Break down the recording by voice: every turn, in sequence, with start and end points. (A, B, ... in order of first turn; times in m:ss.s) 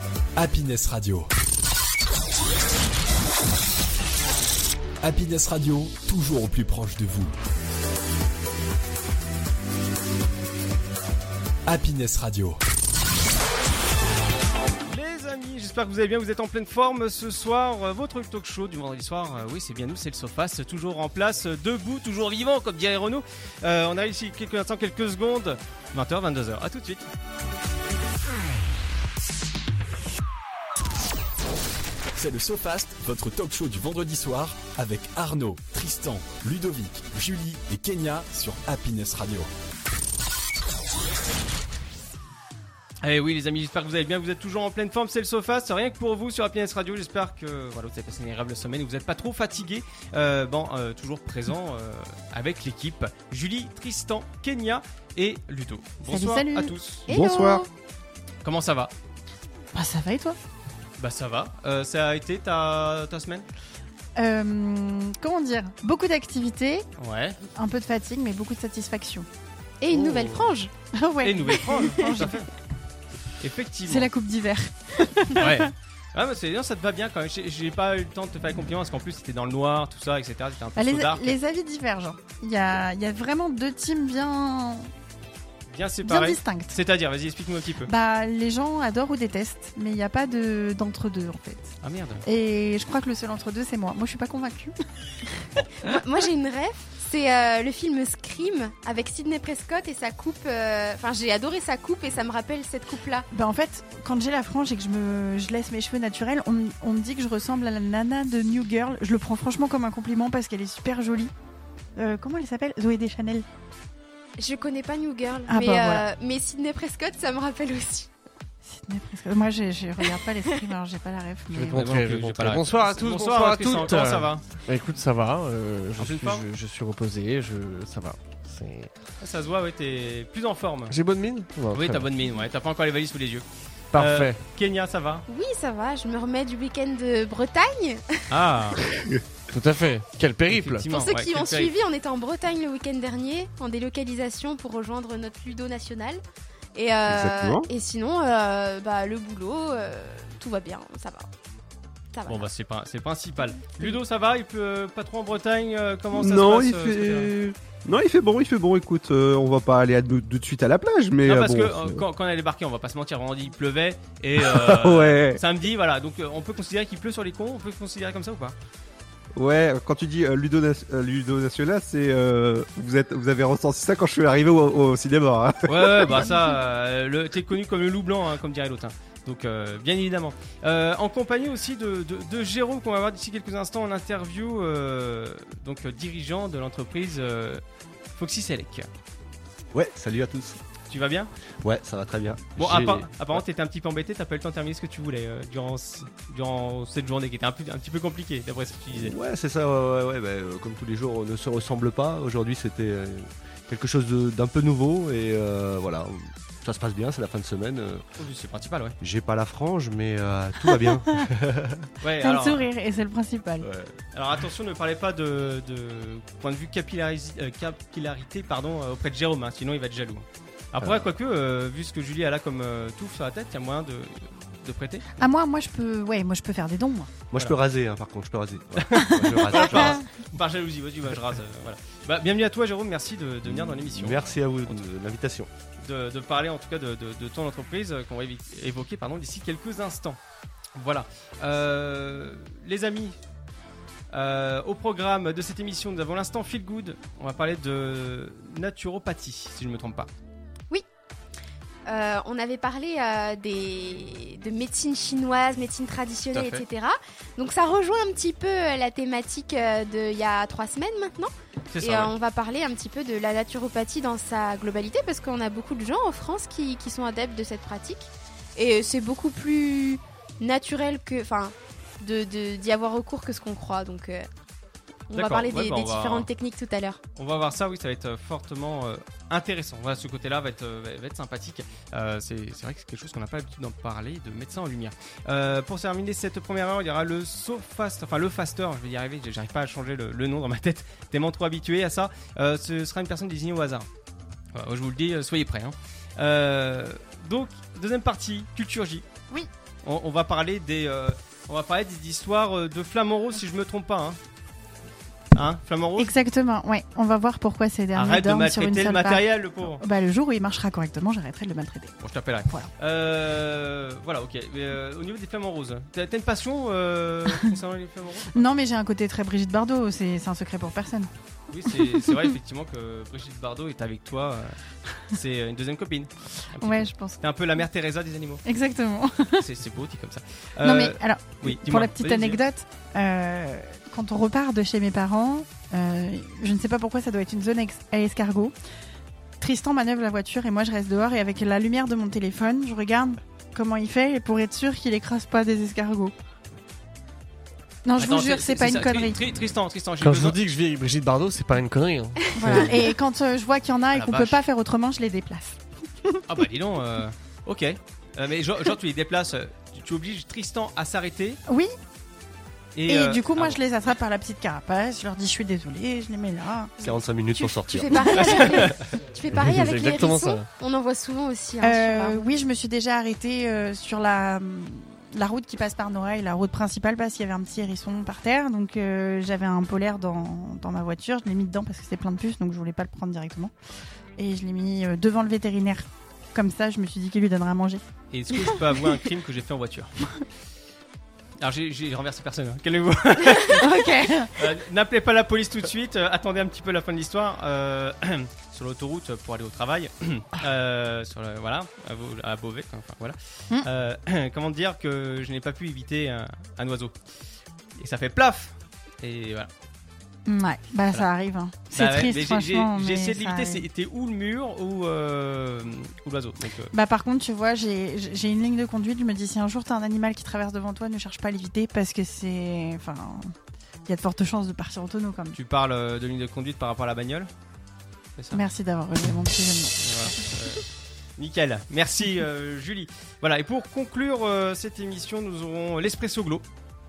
0:00.4-0:01.3 A
0:05.0-0:07.3 A
0:11.7-0:12.6 A
0:14.9-0:27.0 B
0:32.1-0:39.5 A
0:43.0-0:57.1 B
0:56.0-0:56.7 C
0:57.1-0:57.6 D
0:57.1-0:57.7 E
0:58.4-0:58.9 B
0:59.7-1:00.4 C
1:01.0-1:03.5 B
1:04.2-1:06.8 C
1:07.0-1:07.4 B
1:07.5-1:09.3 C
1:09.8-1:10.7 E
1:09.9-1:10.5 B
1:10.9-1:12.4 C
1:11.2-1:12.5 B
1:13.4-1:14.1 B
1:13.8-1:15.7 C
1:15.3-1:21.4 B
1:20.8-1:24.9 C
1:25.7-1:27.9 B
1:26.0-1:26.7 C
1:27.9-1:31.7 C
1:31.8-1:32.2 B
1:32.2-1:34.7 C
1:35.6-1:35.9 C
1:35.8-1:43.3 E
1:43.3-1:51.3 C
1:52.0-1:53.4 C
1:54.4-1:58.1 E
1:55.5-1:56.0 C
1:58.6-2:01.9 C
2:01.5-2:08.9 F
2:01.7-2:04.4 B
2:06.0-2:06.4 B
2:09.2-2:11.0 B
2:10.9-2:12.1 F
2:11.7-2:15.2 B
2:13.9-2:14.4 F
2:15.3-2:18.2 E
2:18.3-2:18.8 B
2:19.5-2:20.9 F
2:20.5-2:21.7 B
2:20.9-2:26.2 E
2:26.8-2:31.3 E
2:27.1-2:27.7 D
2:32.1-2:32.5 E
2:32.2-2:37.3 B
2:36.1-2:42.0 D
2:41.2-2:48.6 B
2:44.4-2:45.4 D
2:49.3-2:56.3 D
2:55.6-3:08.9 B
3:09.7-3:10.6 G
3:10.9-3:11.3 B
3:11.6-3:13.4 G
3:12.6-3:19.2 B
3:18.9-3:28.0 G
3:28.2-3:29.0 B
3:29.0-3:31.9 G
3:32.0-3:32.7 B
3:32.2-3:33.7 C
3:33.6-3:33.9 G
3:34.1-3:45.1 B
3:40.8-3:41.1 G
3:45.2-3:47.1 C
3:47.3-3:50.0 G
3:48.8-3:54.8 B
3:49.5-3:49.8 C
3:53.4-3:55.5 G
3:55.8-4:00.2 B
4:00.8-4:03.2 B
4:04.1-4:10.1 B
4:11.8-4:34.3 E
4:16.3-4:16.6 B
4:21.7-4:22.1 B
4:35.1-4:37.0 E
4:35.1-4:36.3 B
4:37.2-4:53.9 B
4:54.5-4:59.1 B
4:59.8-5:04.2 B
5:05.3-5:06.1 B
5:06.0-5:12.7 C
5:07.9-5:09.8 B
5:12.0-5:18.5 B
5:18.3-5:21.1 C
5:21.5-5:28.4 B
5:21.7-5:22.3 C
5:26.6-5:27.2 C
5:28.4-5:29.4 C
5:29.4-5:32.4 B
5:30.6-5:38.5 C
5:39.4-5:46.1 C
5:47.8-5:49.2 C
5:48.0-5:50.4 B
5:50.0-5:52.8 F
5:52.3-5:56.2 C
5:53.9-5:54.4 B
5:56.3-6:01.4 B
6:01.5-6:01.7 C
6:02.8-6:03.6 B
6:02.9-6:06.7 C
6:06.8-6:08.5 G
6:06.8-6:12.3 E
6:07.9-6:08.6 C
6:08.3-6:08.7 B
6:09.3-6:10.5 F
6:11.6-6:23.5 C
6:24.2-6:27.8 C
6:28.1-6:29.9 B
6:31.4-6:33.6 B
6:33.5-6:34.3 C
6:34.4-6:46.9 B
6:47.8-6:49.5 B
6:50.3-6:53.6 C
6:51.7-6:56.7 B
6:56.7-7:03.3 C
7:03.8-7:05.4 C
7:05.3-7:07.3 B
7:08.2-7:08.4 B
7:08.3-7:10.3 C
7:09.8-7:10.6 B
7:11.2-7:16.4 B